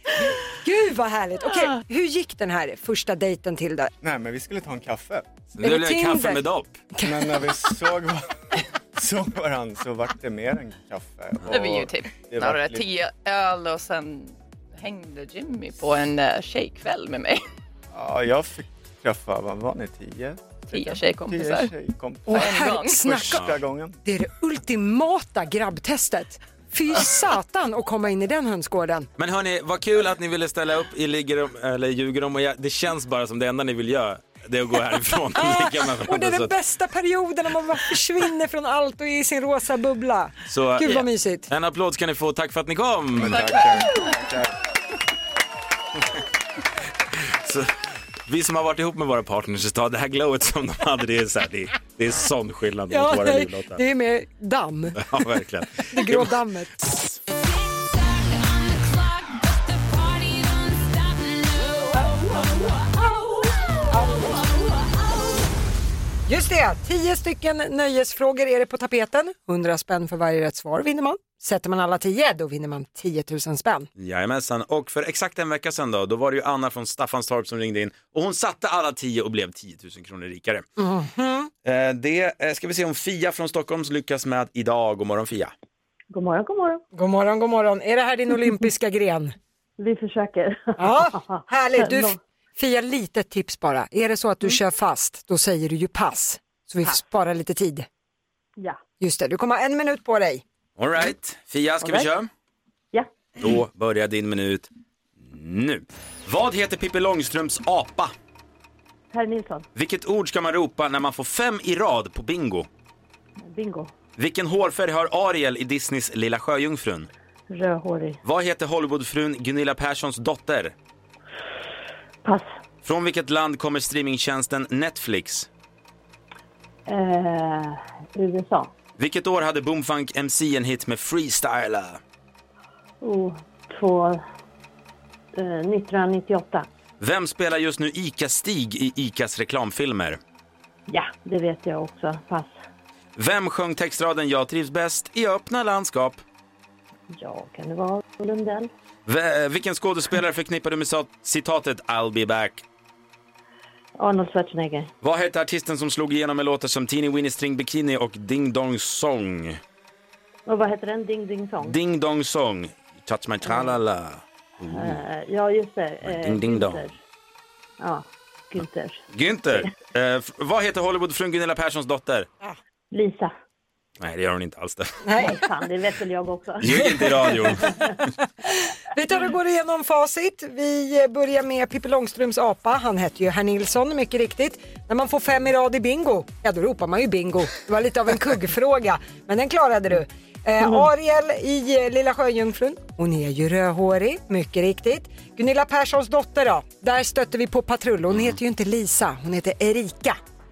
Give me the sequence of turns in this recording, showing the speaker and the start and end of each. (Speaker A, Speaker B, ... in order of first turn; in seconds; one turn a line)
Speaker A: 0.6-3.9
Speaker B: 4.0-5.2
Speaker C: 5.5-6.8
Speaker A: 5.6-6.4
Speaker A: 7.0-7.4
Speaker B: 7.0-12.9
Speaker D: 11.5-17.4
Speaker B: 17.9-24.0
Speaker D: 20.7-21.7
Speaker A: 22.3-23.4
Speaker D: 22.3-23.1
Speaker A: 24.0-29.1
Speaker C: 29.2-36.5
Speaker A: 35.4-41.5
Speaker C: 40.5-44.5
Speaker D: 43.2-44.0
Speaker C: 47.1-47.7
Speaker C: 48.3-53.8
Speaker A: 52.9-55.2
Speaker C: 55.0-57.2
Speaker A: 55.9-56.7
Speaker A: 63.9-64.5
Speaker A: 66.3-73.9
Speaker C: 74.0-80.7
Speaker A: 80.8-81.5
Speaker C: 81.6-85.5
Speaker E: 86.1-86.8
Speaker A: 87.0-89.3
Speaker E: 89.8-92.2
Speaker A: 90.8-97.9
Speaker A: 99.0-100.4
Speaker C: 100.8-102.3
Speaker E: 101.8-102.1
Speaker C: 103.4-104.7
Speaker C: 105.2-108.1
Speaker E: 109.1-109.7
Speaker C: 109.8-112.7
Speaker E: 113.4-113.9
Speaker C: 114.2-117.1
Speaker E: 117.5-118.2
Speaker C: 118.2-120.8
Speaker E: 122.2-122.5
Speaker C: 122.8-125.5
Speaker E: 126.9-128.7
Speaker C: 129.0-132.0
Speaker E: 133.0-134.2
Speaker E: 135.3-136.7
Speaker C: 137.0-140.2
Speaker E: 140.9-142.6
Speaker C: 143.2-146.2
Speaker E: 147.1-148.7
Speaker C: 149.1-152.6
Speaker E: 154.0-154.9
Speaker C: 155.0-159.6
Speaker E: 160.5-161.8
Speaker C: 161.6-165.1
Speaker E: 163.5-163.7
Speaker E: 164.7-166.9
Speaker C: 166.0-166.8
Speaker E: 167.8-169.7
Speaker C: 168.6-172.3
Speaker E: 172.9-173.3
Speaker C: 174.0-175.0
Speaker A: 175.1-175.4
Speaker E: 175.2-177.9
Speaker C: 176.6-177.8
Speaker A: 178.5-200.2
Speaker C: 198.1-198.4